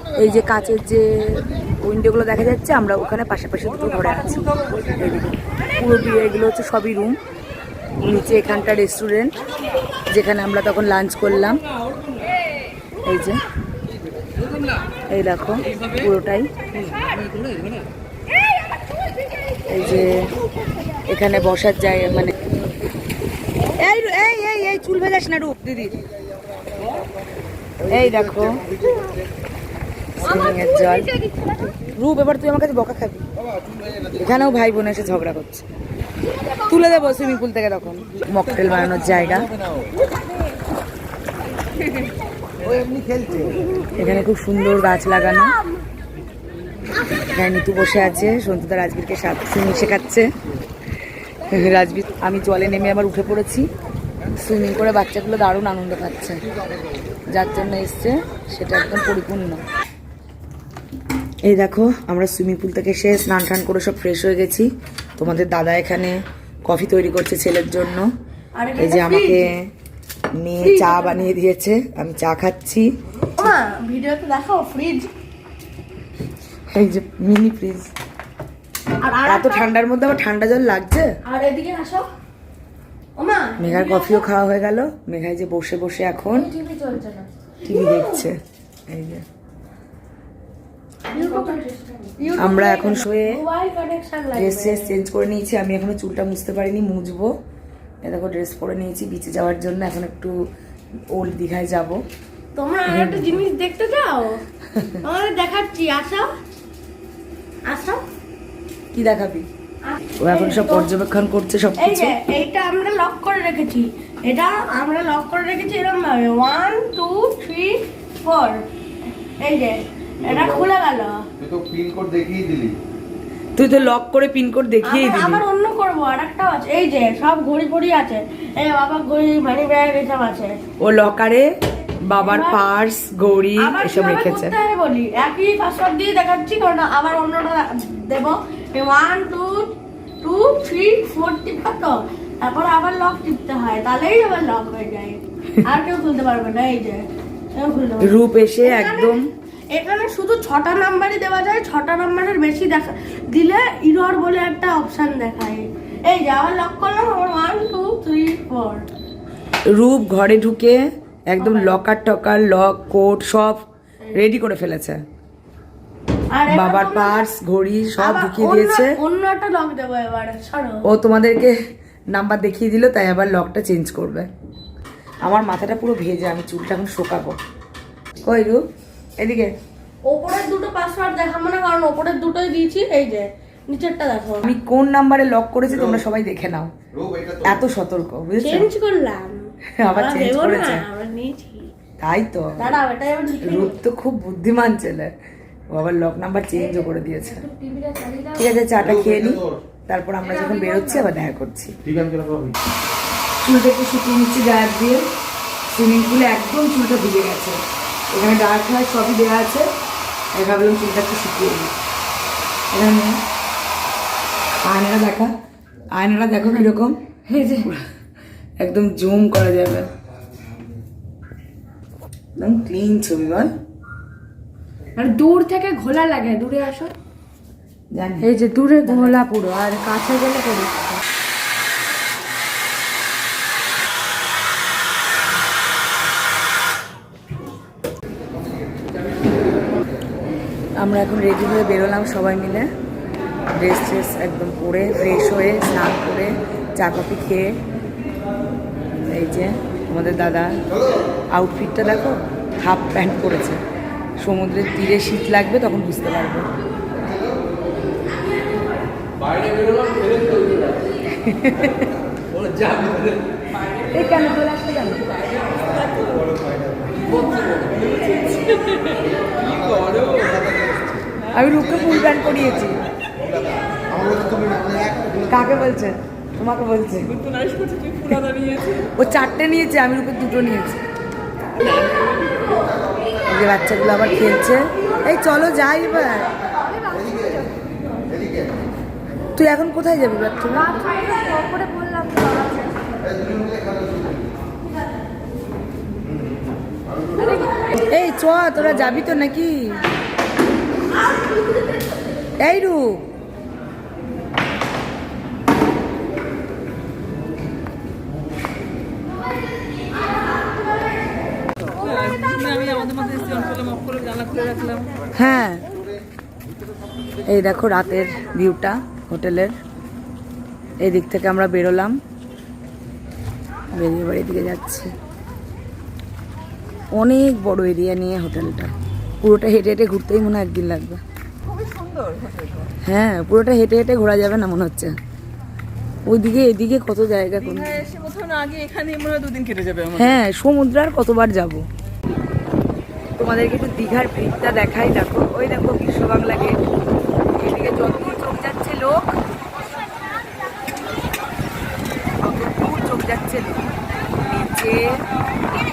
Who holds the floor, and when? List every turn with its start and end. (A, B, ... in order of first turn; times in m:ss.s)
0:00.1-0:07.2 A
0:08.0-0:09.4 A
0:10.1-0:11.6 A
0:13.0-0:13.4 A
0:15.1-0:16.5 A
0:19.7-0:20.3 A
0:21.1-0:22.3 A
0:23.8-0:26.0 A
0:27.9-0:28.6 A
0:30.2-0:31.1 A
0:31.9-0:33.2 A
0:34.1-0:35.6 A
0:36.6-0:39.5 A
0:42.7-0:43.5 B
0:43.9-0:45.5 A
0:47.3-0:50.3 A
0:51.5-0:53.6 A
0:54.4-0:56.4 A
0:57.3-0:59.6 A
1:01.4-1:08.1 A
1:08.6-1:09.5 C
1:08.8-1:09.7 A
1:10.4-1:12.9 A
1:10.6-1:11.3 C
1:13.4-1:15.1 C
1:16.7-1:17.9 A
1:19.0-1:19.7 C
1:19.2-1:21.1 A
1:21.2-1:22.1 C
1:23.2-1:24.2 C
1:23.6-1:26.5 A
1:26.4-1:27.3 D
1:27.6-1:29.2 A
1:27.6-1:28.3 C
1:31.1-1:32.2 D
1:31.1-1:31.6 C
1:32.2-1:34.9 C
1:32.4-1:33.4 A
1:34.3-1:37.3 A
1:38.0-1:40.4 A
1:41.1-1:42.0 A
1:42.5-1:44.4 C
1:42.8-1:43.3 A
1:45.0-1:46.3 C
1:47.6-1:48.0 C
1:48.9-1:49.5 A
1:49.9-1:50.9 C
1:50.2-1:52.2 A
1:51.8-1:58.6 C
1:59.4-2:01.3 C
2:01.4-2:02.8 B
2:03.6-2:05.4 A
2:04.8-2:10.6 C
2:10.8-2:11.5 A
2:12.0-2:14.5 A
2:12.2-2:12.7 C
2:13.6-2:38.9 C
2:28.0-2:29.3 A
2:39.7-2:45.0 A
2:41.4-2:41.8 C
2:46.3-2:47.2 C
2:46.5-2:49.0 A
2:48.0-2:50.8 C
2:50.8-2:51.5 A
2:52.1-2:54.3 A
2:55.2-2:57.4 A
2:58.2-2:58.6 A
2:59.2-2:59.5 A
3:00.0-3:04.5 C
3:04.4-3:06.7 A
3:07.3-3:08.7 A
3:08.4-3:11.7 C
3:09.8-3:10.8 A
3:12.0-3:12.6 A
3:12.6-3:13.8 C
3:13.4-3:15.1 A
3:15.7-3:17.5 A
3:17.4-3:18.6 D
3:18.3-3:21.8 A
3:20.3-3:21.0 D
3:21.9-3:22.5 B
3:23.4-3:25.0 A
3:25.7-3:27.6 A
3:28.1-3:29.7 A
3:30.4-3:31.7 A
3:32.7-3:33.2 A
3:34.6-3:35.3 A
3:35.9-3:37.8 A
3:37.3-3:37.7 D
3:38.6-3:39.9 A
3:42.4-3:43.5 A
3:45.0-3:46.9 D
3:47.9-3:49.2 A
3:48.3-3:51.0 D
4:00.8-4:02.7 A
4:03.5-4:07.5 A
4:09.1-4:10.6 A
4:11.3-4:13.6 A
4:14.2-4:16.5 A
4:19.5-4:20.4 C
4:21.1-4:21.9 A
4:23.9-4:25.0 A
4:27.9-4:28.5 C
4:29.4-4:30.7 B
4:31.3-4:32.8 A
4:34.0-4:35.0 B
4:35.2-4:37.1 A
4:38.0-4:40.8 A
4:43.3-4:46.3 A
4:49.4-4:50.7 A
4:50.7-4:52.7 D
4:51.1-4:51.7 C
4:53.4-4:53.8 B
4:57.2-4:57.7 C
4:57.8-4:59.8 A
5:01.2-5:01.5 C
5:02.4-5:03.1 A
5:11.8-5:12.1 C
5:12.1-5:14.3 D
5:14.2-5:14.7 C
5:15.1-5:15.6 A
5:17.2-5:19.6 A
5:20.8-5:22.0 A
5:23.7-5:24.9 A
5:26.9-5:31.0 A
5:32.8-5:34.9 A
5:36.0-5:37.9 A
5:37.9-5:39.8 D
5:39.9-5:41.6 A
5:43.2-5:46.6 A
5:47.4-5:49.0 A
5:52.2-5:53.6 A
5:54.2-5:54.8 A